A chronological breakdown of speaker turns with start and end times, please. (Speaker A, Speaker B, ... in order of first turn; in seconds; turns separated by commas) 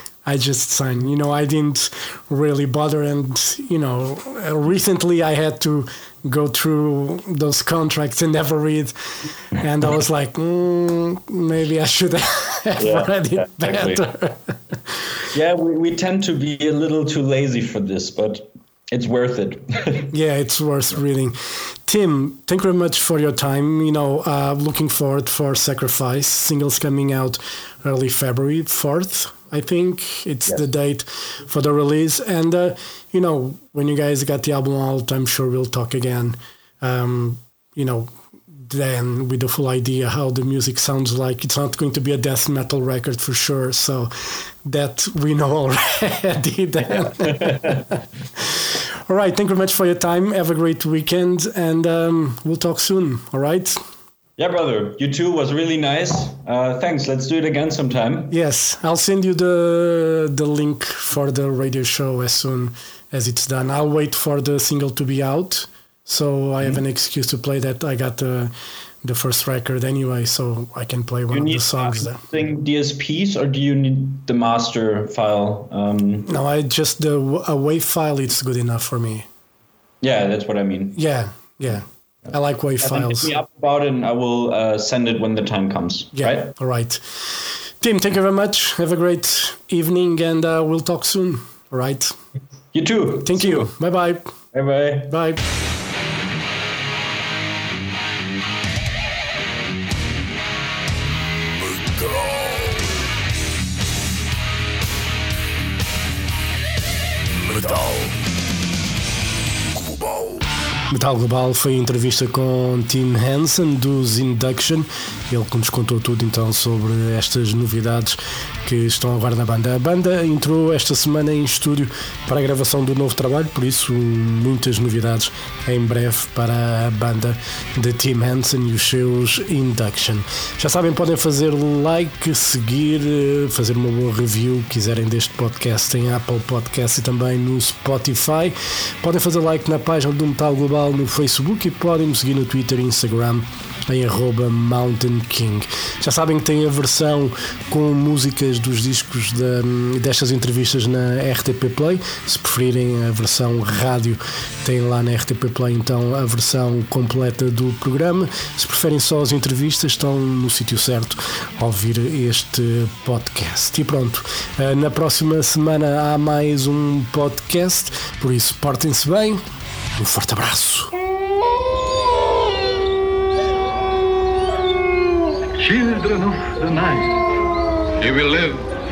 Speaker A: 0.2-15.2, Speaker B: 12.8-14.0, Speaker B: 15.3-20.1, Speaker A: 20.1-53.8, Speaker B: 46.9-47.8, Speaker B: 54.4-58.3, Speaker A: 58.3-68.5, Speaker A: 69.0-72.2, Speaker B: 71.3-76.3, Speaker A: 76.3-79.3, Speaker B: 80.0-81.0, Speaker A: 81.0-83.3, Speaker B: 82.8-86.5, Speaker A: 86.1-92.2, Speaker B: 92.7-93.7, Speaker A: 93.2-94.3, Speaker B: 94.5-95.1, Speaker A: 95.0-95.4, Speaker A: 110.9-169.4, Speaker A: 169.9-170.9, Speaker C: 175.6-177.2, Speaker C: 178.0-178.7